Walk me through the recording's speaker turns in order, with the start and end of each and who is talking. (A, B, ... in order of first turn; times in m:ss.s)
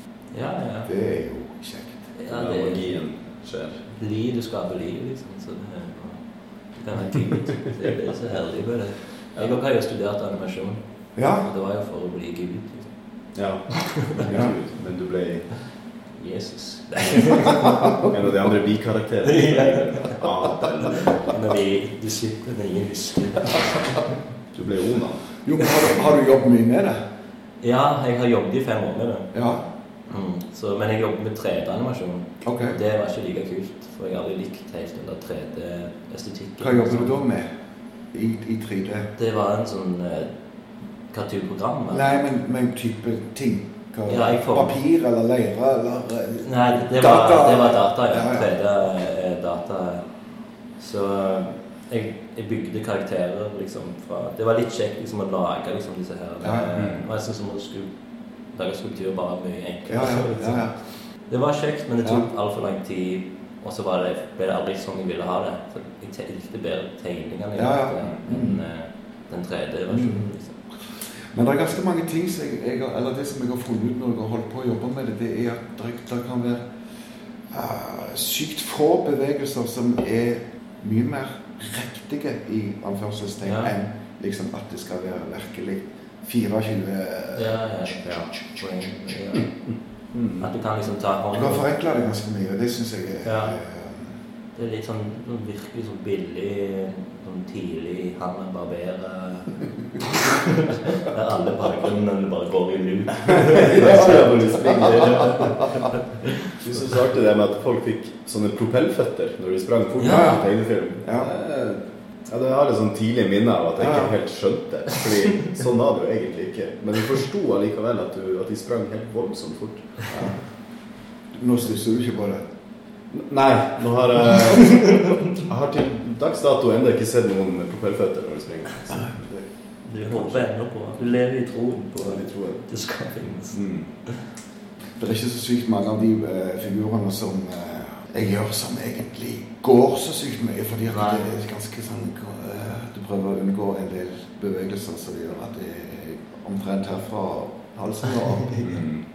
0:00.3-0:00.9 A
0:00.8-0:02.1 B
0:02.1-0:03.0 A
0:02.3-0:03.8 C
0:03.9-0:12.9 A
0:11.2-0:11.5 B
0:13.3-0:15.6 C
0:16.1-0:18.0 A
0:17.0-0:21.3 C
0:17.6-0:18.0 B
0:19.2-0:20.2 A
0:21.2-0:24.1 A
0:24.5-0:25.3 C
0:25.4-0:27.0 B
0:27.6-0:29.3 A
0:29.3-0:29.7 B
0:30.1-0:37.2 A
0:32.4-0:32.8 B
0:36.6-0:37.5 B
0:38.1-0:39.1 B
0:39.2-0:40.3 A
0:41.1-0:42.2 A
0:41.9-0:48.5 B
0:44.1-0:44.8 A
0:46.4-0:50.0 A
0:50.7-0:57.9 A
0:56.4-0:56.8 B
0:58.5-1:10.5 A
0:59.9-1:00.8 B
1:07.6-1:08.6 B
1:09.9-1:10.2 B
1:10.9-1:16.7 B
1:17.5-1:28.4 B
1:23.4-1:23.8 A
1:27.3-1:29.6 A
1:30.1-1:30.4 C
1:30.4-1:31.6 A
1:31.3-1:34.2 B
1:33.2-1:33.6 A
1:34.5-1:46.8 A
1:43.2-1:45.8 C
1:46.5-2:00.1 C
1:50.0-1:50.4 A
1:50.1-1:50.4 B
1:51.0-1:51.3 B
1:53.8-1:54.1 B
2:00.1-2:00.4 B
2:01.3-2:02.4 B
2:03.1-2:09.3 C
2:09.8-2:14.2 A
2:12.0-2:12.6 C
2:13.5-2:13.9 C
2:15.0-2:28.6 B
2:20.9-2:21.4 A
2:28.6-2:29.0 C